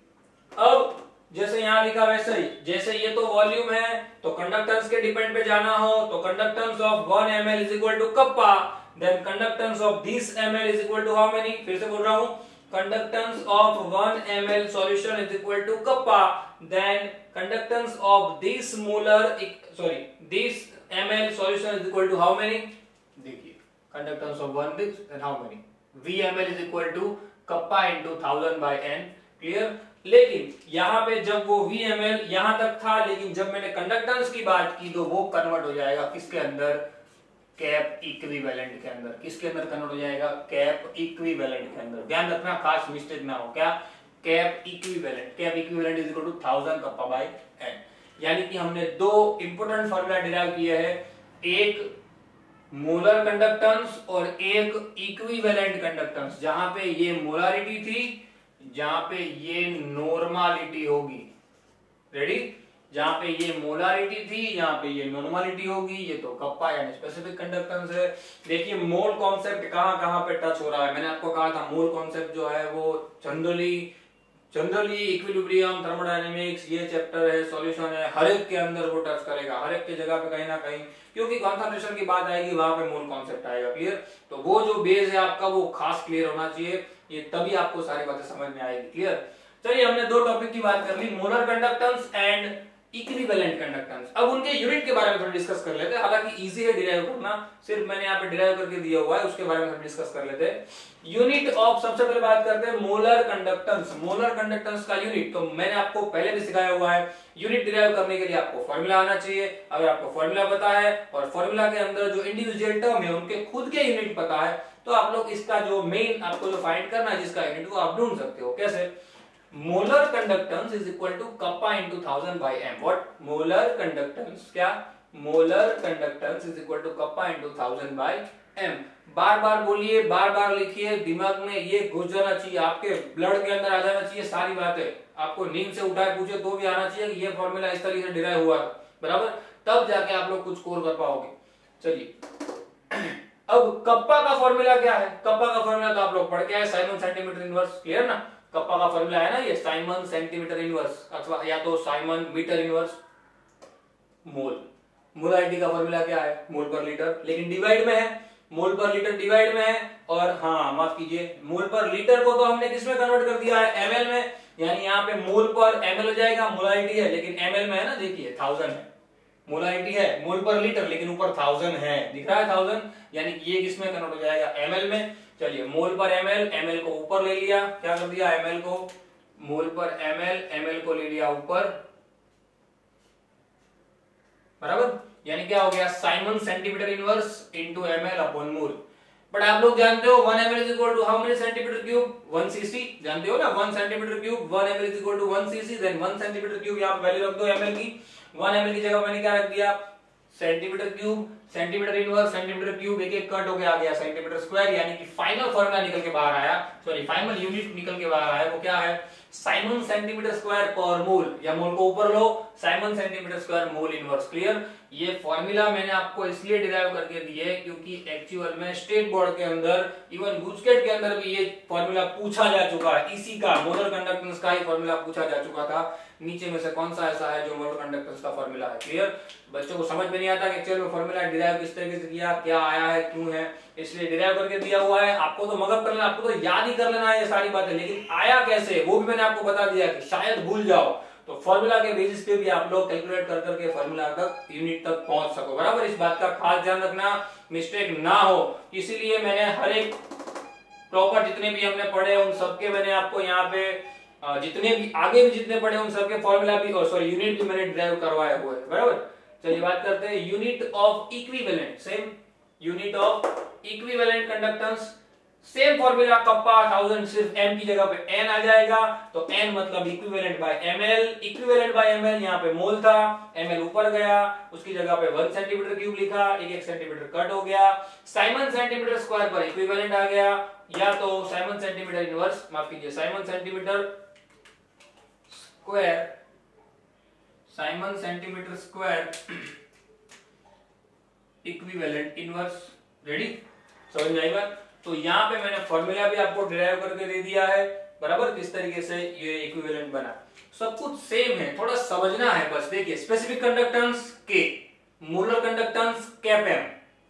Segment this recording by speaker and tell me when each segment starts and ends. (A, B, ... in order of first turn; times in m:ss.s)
0:00.6-0:36.8 A
0:37.6-0:51.8 A
0:52.7-1:01.3 A
1:02.1-1:13.9 A
1:14.5-1:58.9 A
1:59.5-2:22.1 A
2:22.9-2:33.0 A
2:34.2-2:48.9 A
2:49.4-3:01.8 A
3:04.6-3:08.8 A
3:09.3-3:19.8 A
3:20.3-4:10.0 A
4:10.9-4:43.9 A
4:45.3-4:46.1 A
4:47.5-4:49.5 A
4:51.4-4:53.4 A
4:53.9-5:06.7 A